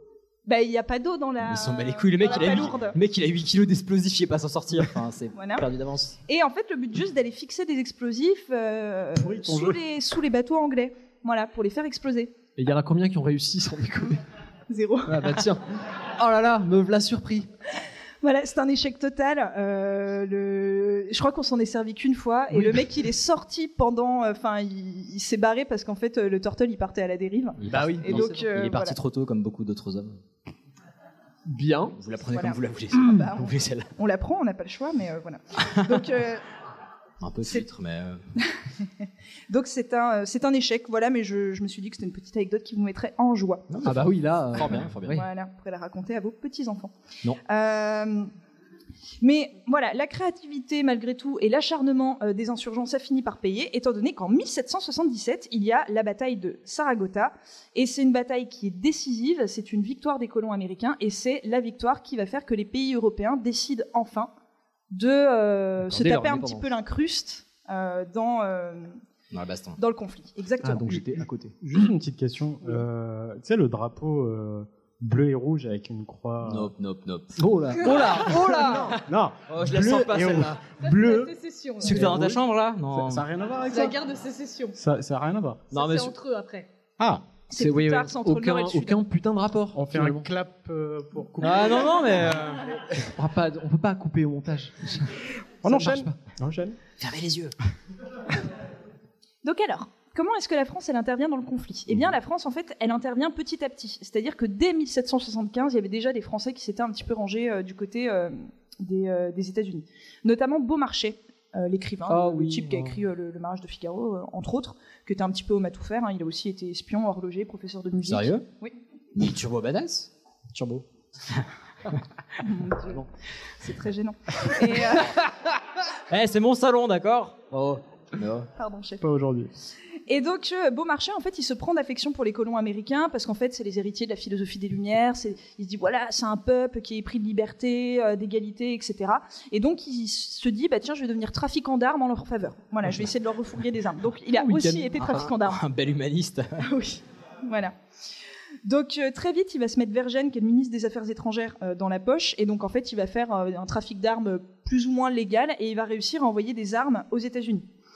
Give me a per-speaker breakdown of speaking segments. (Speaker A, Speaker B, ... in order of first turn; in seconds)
Speaker A: 0.5-3.0, 5.3-5.7, 6.3-12.3, 14.7-15.4, 18.2-29.0, 32.3-36.4, 39.5-43.7, 45.1-46.9, 47.5-48.3, 49.2-64.3, 64.9-69.0, 69.8-71.0, 87.5-89.0, 99.4-118.7, 122.4-123.0, 123.6-125.2, 128.6-129.0, 130.1-145.6, 146.6-147.7, 148.7-157.7
Speaker B: 1.4-6.2, 27.6-30.2, 31.9-33.9, 37.2-38.2, 43.7-45.2, 69.3-69.8, 76.4-80.6, 81.8-83.3, 85.7-86.2, 91.4-92.7, 97.0-97.5, 112.1-113.0, 118.0-118.5, 119.2-121.5, 126.1-128.5, 145.0-146.6
Speaker C: 9.2-9.8, 71.6-76.7, 78.2-84.0, 84.7-85.7, 89.7-92.0, 95.6-96.8, 129.0-129.5
Speaker D: 12.6-14.2, 15.1-15.6, 16.2-17.5, 22.5-22.9, 27.7-28.4, 31.5-31.9, 43.8-45.2, 65.9-66.7, 70.6-71.5, 77.4-79.0, 87.5-90.3, 93.0-96.2, 144.3-145.0
Speaker E: 80.8-82.0, 83.7-84.8, 85.7-86.7